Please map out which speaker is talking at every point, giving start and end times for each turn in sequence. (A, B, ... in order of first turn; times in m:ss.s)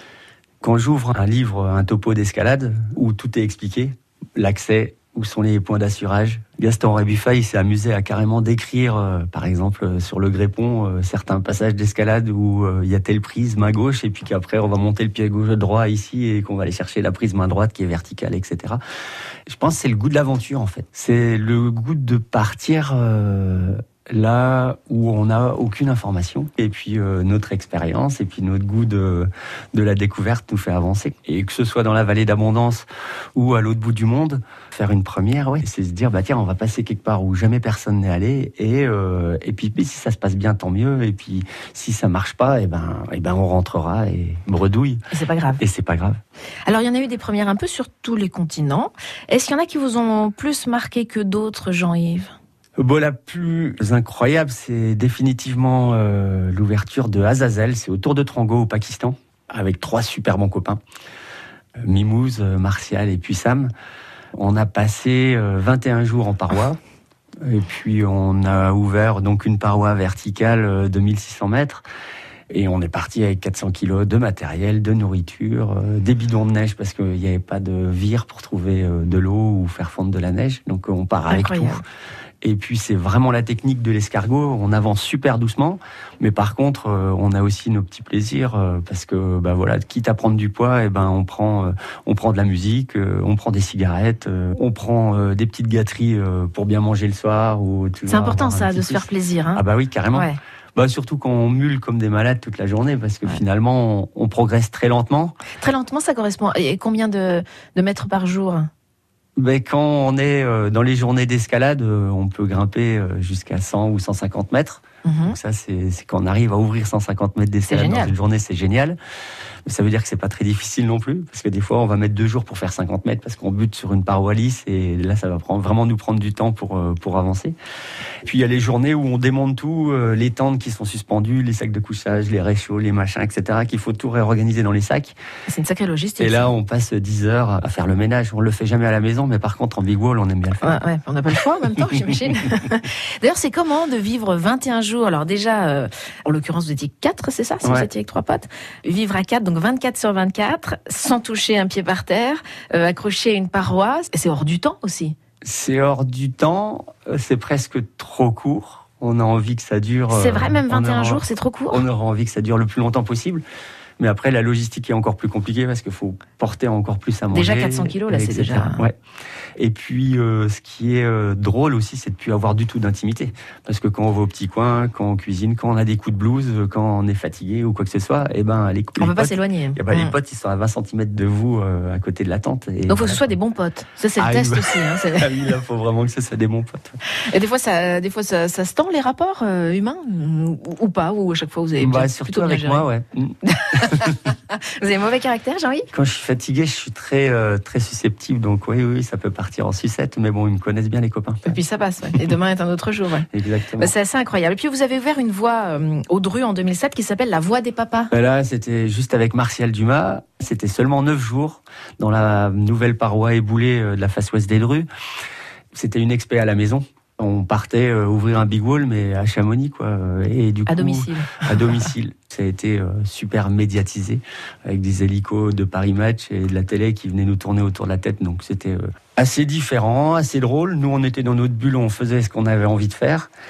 0:00.6-0:18.8 A
0:19.5-0:45.0 A
0:45.1-0:45.6 B
0:45.6-0:46.2 A
0:46.7-0:52.3 B
0:52.8-1:00.8 A
1:01.8-1:03.7 A
1:04.3-1:06.8 A
1:07.4-1:11.8 A
1:12.5-1:21.8 A
1:21.3-1:21.8 B
1:22.4-1:45.4 A
1:38.1-1:40.4 B
1:45.6-1:48.7 B
1:49.4-1:59.0 A
1:55.0-1:55.4 B
1:57.7-1:58.1 B
1:59.6-2:07.6 A
2:08.2-2:15.2 A
2:15.5-2:16.5 B
2:16.2-2:20.8 A
2:20.6-2:35.2 B
2:27.6-2:27.9 A
2:35.4-2:43.4 A
2:40.1-2:41.8 B
2:44.0-2:49.0 A
2:47.3-2:48.8 B
2:49.6-3:03.3 A
2:59.0-3:00.1 B
3:02.9-3:05.3 B
3:04.2-3:07.0 A
3:07.3-3:12.8 B
3:11.8-3:14.2 A
3:13.5-3:15.9 B
3:15.9-3:21.6 A
3:21.5-3:23.3 B
3:23.3-3:23.9 A
3:23.8-3:28.1 B
3:28.1-3:34.9 A
3:35.7-3:53.3 A
3:40.7-3:41.4 B